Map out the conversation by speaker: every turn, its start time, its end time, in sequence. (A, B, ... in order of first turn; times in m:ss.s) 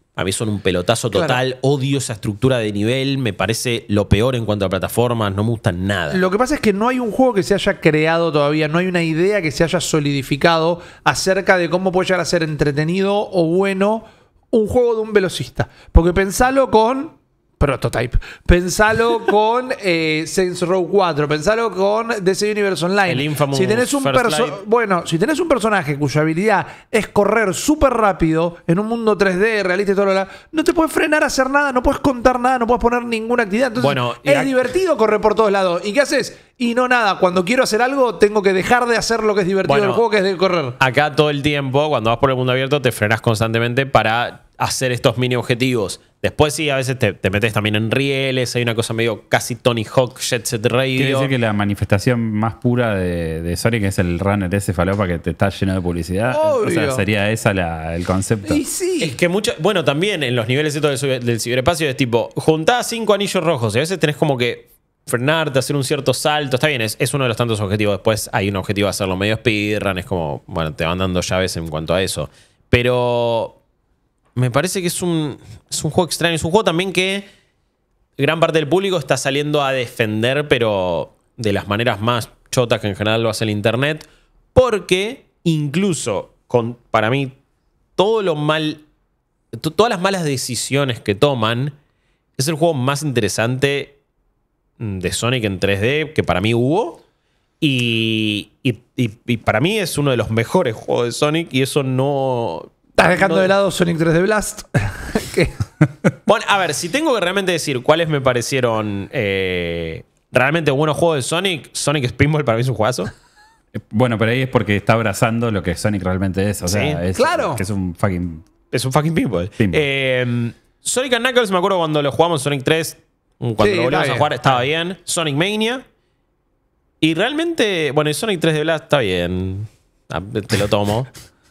0:00.1-0:06.2 A
0:01.1-0:01.4 B
0:06.1-0:40.8 B
0:23.0-0:24.6 A
0:33.8-0:34.7 A
0:39.6-0:40.0 A
0:40.8-0:51.3 A
0:51.0-0:58.6 C
0:56.3-0:57.0 B
0:58.4-0:59.2 B
0:59.0-1:13.6 A
1:14.3-1:17.3 A
1:18.2-1:27.4 A
1:28.0-1:28.8 A
1:29.5-1:31.7 A
1:32.4-1:33.9 A
1:34.8-1:37.0 A
1:37.6-1:43.5 A
1:43.0-1:45.6 B
1:46.2-1:53.1 A
1:53.7-1:58.4 C
1:56.6-1:57.0 A
1:57.1-1:57.6 B
1:58.7-2:05.8 A
2:03.6-2:04.5 B
2:07.0-2:11.1 A